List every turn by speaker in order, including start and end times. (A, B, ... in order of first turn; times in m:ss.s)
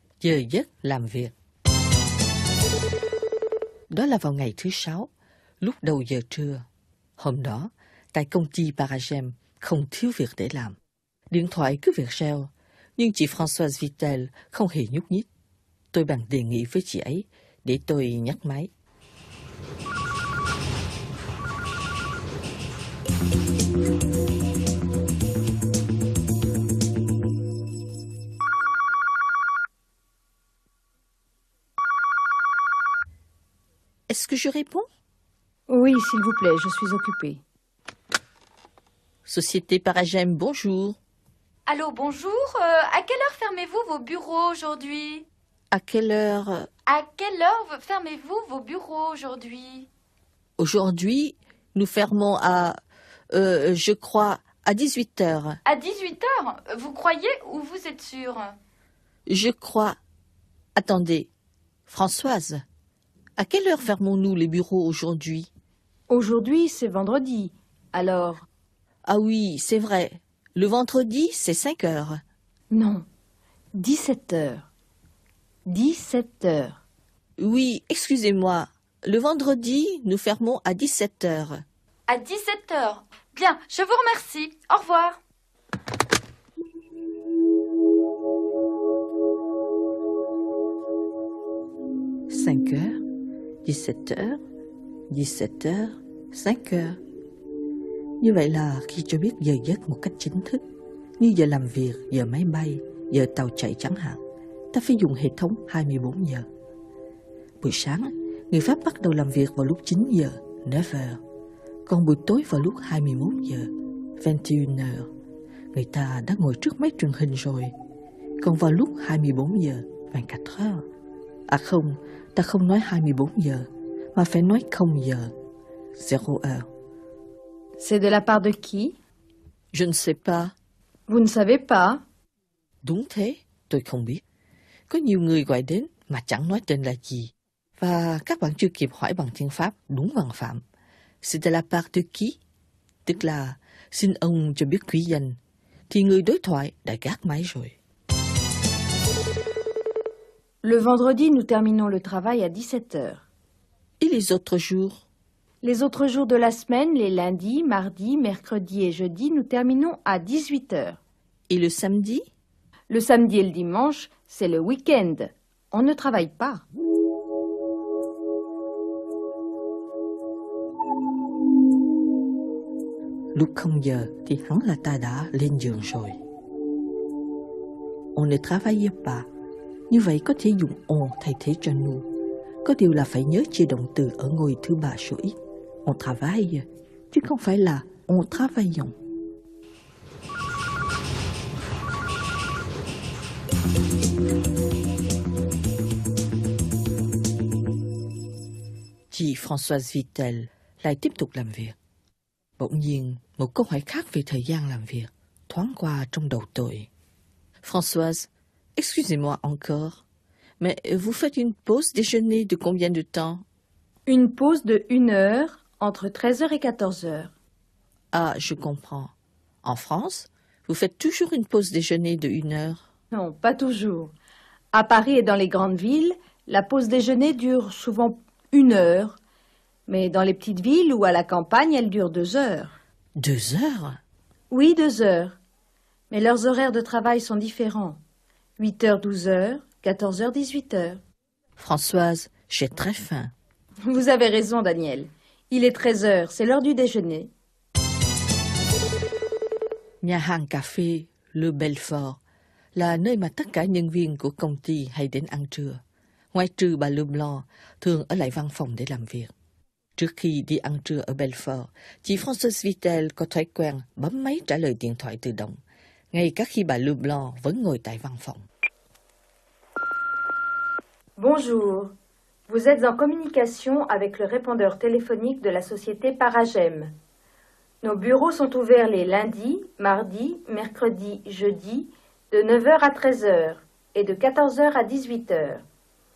0:00.2-0:01.3 A
0:03.9-0:06.6 A
0:07.2-0:10.8 A
0:11.3-0:15.3 A
0:15.9-0:18.7 A
0:34.1-0:34.8 A
0:35.7-0:37.4 B
0:39.2-0:41.0 A
0:41.7-0:45.2 B
0:43.4-0:44.7 C
0:45.7-0:46.7 A
0:46.9-0:47.2 B
0:46.9-0:49.9 C
0:50.6-0:52.8 A
0:53.3-0:55.6 A
0:55.6-0:58.5 C
0:59.3-1:00.0 A
1:00.8-1:01.3 A
1:01.9-1:02.6 A
1:03.4-1:05.5 A
1:06.1-1:08.4 B
1:09.0-1:12.2 A
1:12.7-1:13.0 B
1:13.7-1:14.6 B
1:15.6-1:16.8 B
1:17.4-1:21.6 A
1:22.1-1:25.2 B
1:32.3-1:33.0 A
1:33.6-1:34.4 A
1:35.1-1:37.0 A
1:38.2-1:40.6 A
1:41.2-1:44.2 A
1:44.7-1:46.5 A
1:47.6-1:51.2 A
1:51.8-1:55.1 A
1:55.7-1:57.7 A
1:58.4-2:00.8 A
2:01.5-2:05.3 A
2:06.0-2:06.7 A
2:07.8-2:08.9 B
2:09.7-2:10.5 A
2:11.1-2:12.0 B
2:12.8-2:14.2 A
2:14.9-2:20.6 A
2:21.2-2:22.4 A
2:23.0-2:25.4 A
2:25.9-2:27.7 A
2:30.6-2:33.2 B
2:34.0-2:35.0 A
2:35.6-2:41.0 B
2:41.5-2:42.2 A
2:42.9-2:46.6 B
2:53.3-2:56.2 A
2:58.1-2:59.3 A
2:59.9-3:02.1 A
3:02.6-3:09.0 A
3:19.1-3:21.8 A
3:22.6-3:26.9 A
3:27.6-3:30.0 A
3:30.6-3:33.4 A
3:34.0-3:37.3 B
3:38.1-3:39.1 A
3:39.6-3:42.8 A
3:43.1-3:44.1 B
3:44.7-3:49.2 B
3:49.9-3:52.8 B
3:53.2-3:54.0 A
3:54.5-3:55.4 B
3:56.1-3:58.0 B
3:58.6-4:01.0 B
4:01.6-4:03.3 A
4:03.8-4:07.3 B
4:10.0-4:12.2 A
4:12.7-4:15.8 A
4:16.3-4:19.3 A
4:20.0-4:25.6 A
4:26.1-4:28.4 A
4:31.2-4:31.9 B
4:32.5-4:36.9 B
4:37.8-4:45.6 B